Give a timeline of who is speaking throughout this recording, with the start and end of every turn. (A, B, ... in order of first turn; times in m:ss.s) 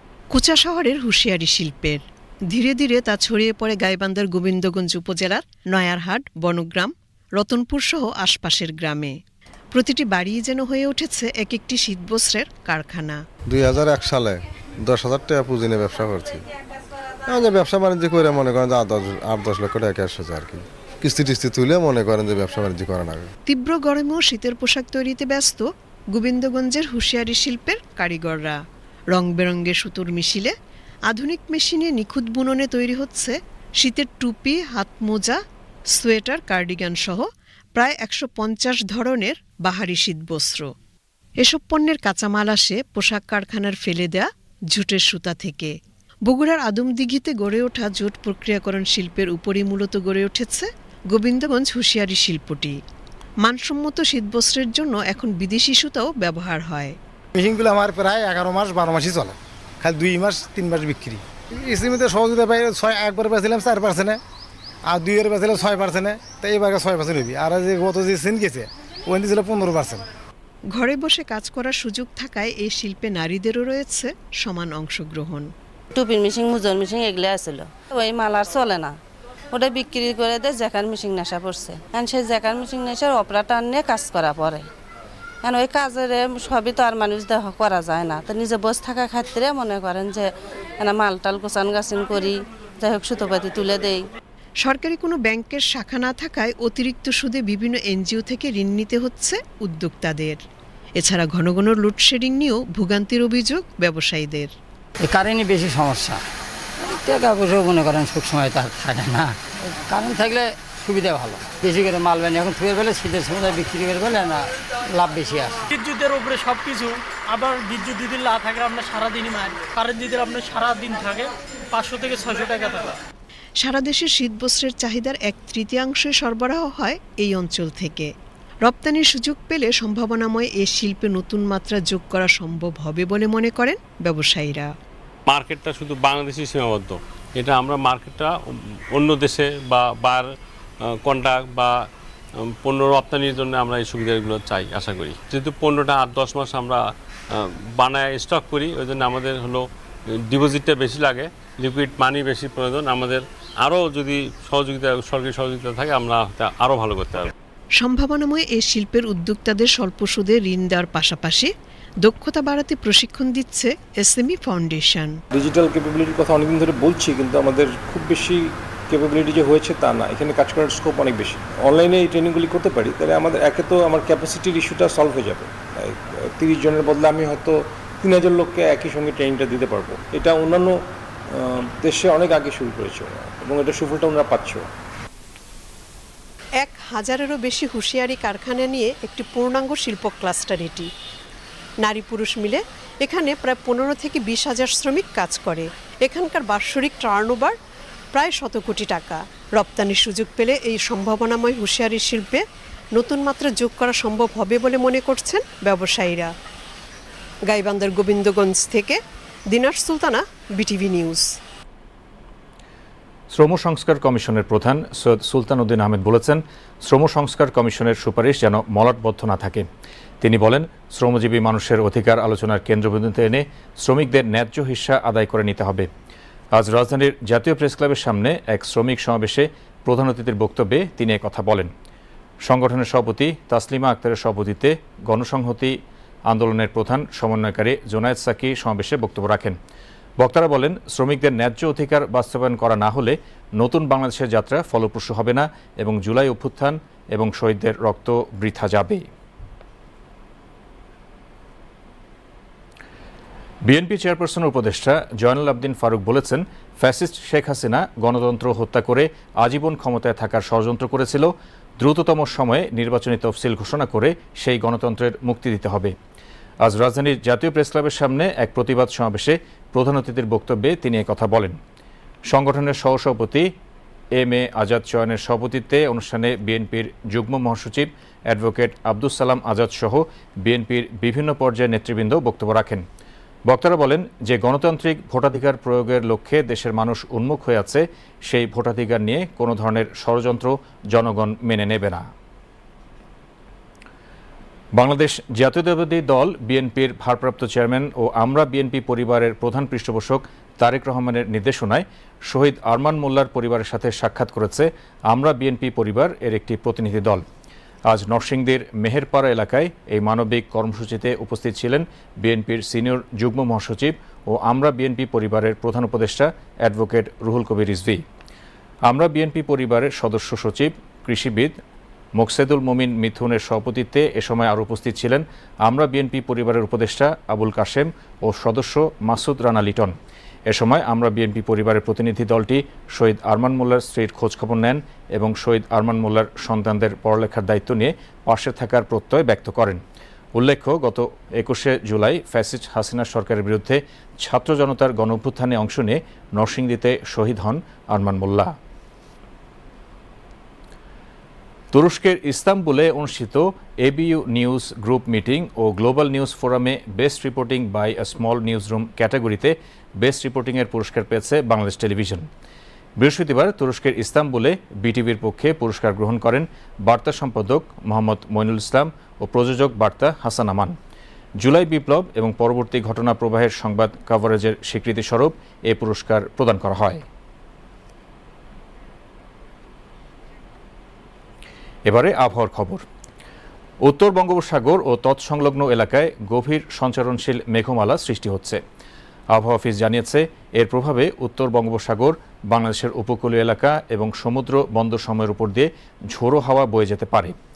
0:00.3-0:09.2 A
0:09.7-0:13.2 A
0:13.5-0:16.4 B
0:17.3-0:23.3 B
0:23.5-0:30.5 A
0:31.1-0:35.4 A
0:35.9-0:40.7 A
0:41.4-0:45.8 A
0:46.3-0:52.8 A
0:53.4-0:57.0 A
0:57.4-1:04.2 C
1:04.9-1:10.0 C
1:10.7-1:15.5 A
1:16.0-1:19.0 D
1:19.5-1:24.6 D
1:25.4-1:34.0 D
1:34.6-1:40.4 A
1:41.0-1:44.5 A
1:45.0-1:46.2 E
1:46.8-1:49.4 E
1:49.9-1:55.5 E
1:55.7-2:02.8 F
2:03.6-2:08.1 A
2:08.6-2:14.7 A
2:15.3-2:20.3 G
2:21.0-2:21.8 G
2:22.5-2:29.7 G
2:30.2-2:37.3 G
2:37.8-2:41.5 A
2:42.0-2:45.2 A
2:45.3-3:04.7 H
3:06.6-3:10.9 A
3:11.8-3:17.6 A
3:18.1-3:22.4 A
3:23.0-3:26.3 A
3:27.5-3:29.0 A
3:29.5-3:31.3 A
3:33.3-3:39.7 I
3:40.2-3:45.9 I
3:46.6-3:51.7 I
3:52.4-3:55.8 I
3:56.3-3:59.6 I
4:00.2-4:09.1 I
4:13.7-4:25.9 I
4:26.6-4:31.6 I
4:32.3-4:33.5 I
4:34.2-4:42.8 I
4:43.5-4:52.1 I
4:54.8-5:07.2 I
5:07.9-5:18.0 I
5:18.9-5:21.6 I
5:22.2-5:29.9 I
5:30.5-5:39.8 I
5:40.4-5:48.6 I
5:51.7-6:02.3 I
6:03.0-6:10.8 I
6:11.4-6:17.0 I
6:21.9-6:22.8 I
6:23.8-6:28.6 I
6:29.3-6:37.4 I